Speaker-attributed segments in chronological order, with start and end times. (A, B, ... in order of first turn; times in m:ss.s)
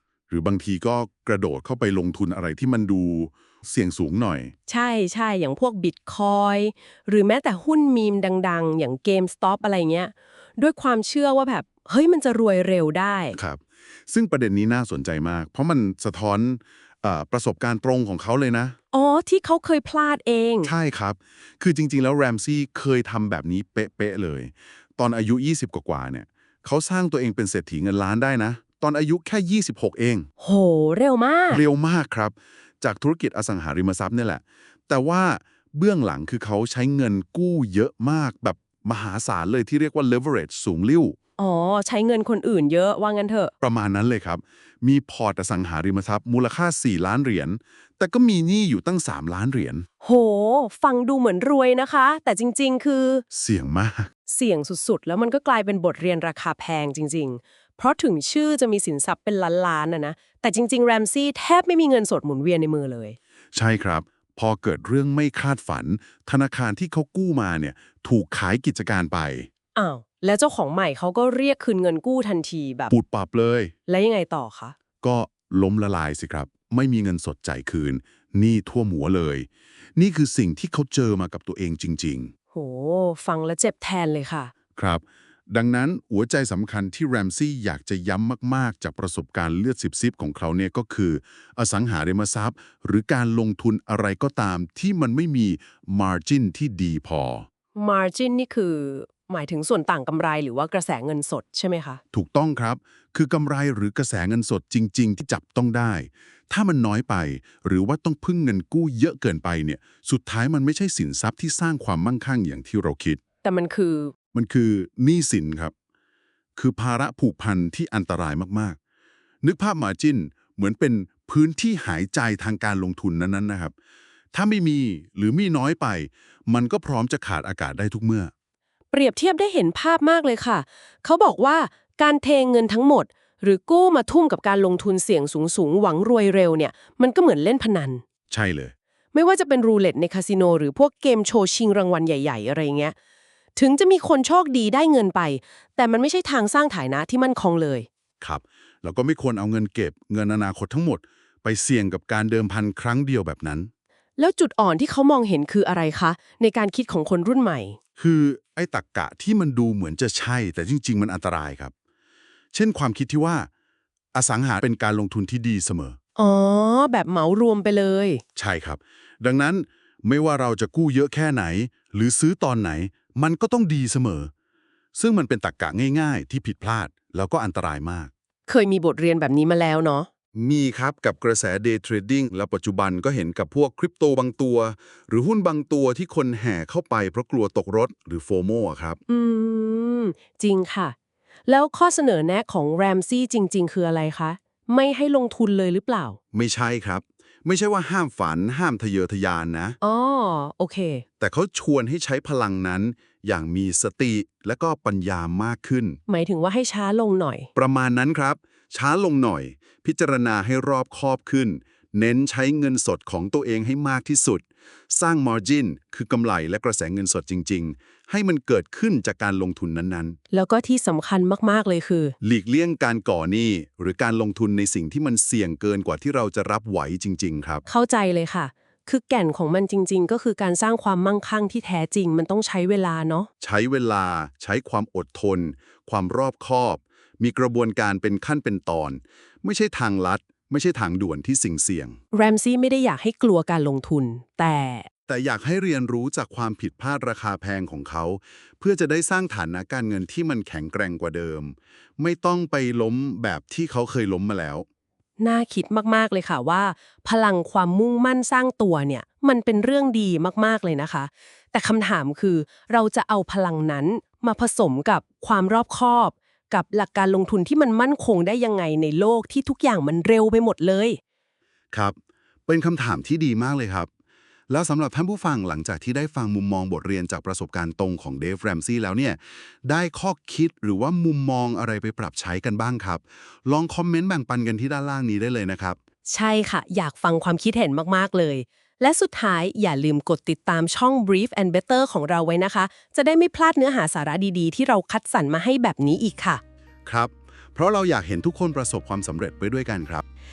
0:00.3-0:04.5 A
0:04.7-0:13.4 B
0:13.4-0:18.8 A
0:18.9-0:20.7 B
0:20.6-0:30.3 A
0:30.4-0:31.6 B
0:31.5-0:41.2 A
0:41.4-0:43.5 B
0:43.6-0:49.8 A
0:50.0-0:53.2 B
0:53.3-0:54.1 A
0:54.3-1:03.2 B
1:03.5-1:09.5 A
1:09.7-1:12.9 B
1:12.9-1:13.7 A
1:13.9-1:14.7 B
1:15.0-1:22.3 A
1:22.5-1:24.5 B
1:24.8-1:37.5 A
1:37.7-1:42.0 B
1:42.1-1:53.2 A
1:53.4-1:54.1 B
1:54.3-1:55.7 A
1:56.6-1:58.8 A
1:59.4-2:03.7 A
2:04.3-2:08.3 A
2:08.9-2:18.0 B
2:18.3-2:18.7 A
2:19.1-2:22.9 B
2:23.6-2:27.9 B
2:28.2-2:33.7 A
2:34.2-2:37.8 B
2:38.0-2:41.7 A
2:42.5-2:43.5 A
2:44.1-2:46.0 A
2:46.2-2:48.2 B
2:48.4-2:54.3 A
2:54.9-2:58.1 A
2:58.5-3:00.1 B
3:00.3-3:09.0 A
3:09.1-3:10.9 B
3:11.5-3:16.2 B
3:16.3-3:19.8 A
3:19.8-3:21.0 B
3:21.2-3:26.0 A
3:26.1-3:27.5 B
3:27.5-3:40.2 A
3:40.3-3:42.1 B
3:42.2-3:47.6 A
3:47.7-3:53.3 B
3:53.4-4:02.0 A
4:02.1-4:04.9 B
4:05.1-4:14.6 A
4:15.2-4:31.0 B
4:31.7-4:33.9 A
4:34.5-4:45.8 A
4:46.0-4:56.4 B
4:56.8-5:00.0 A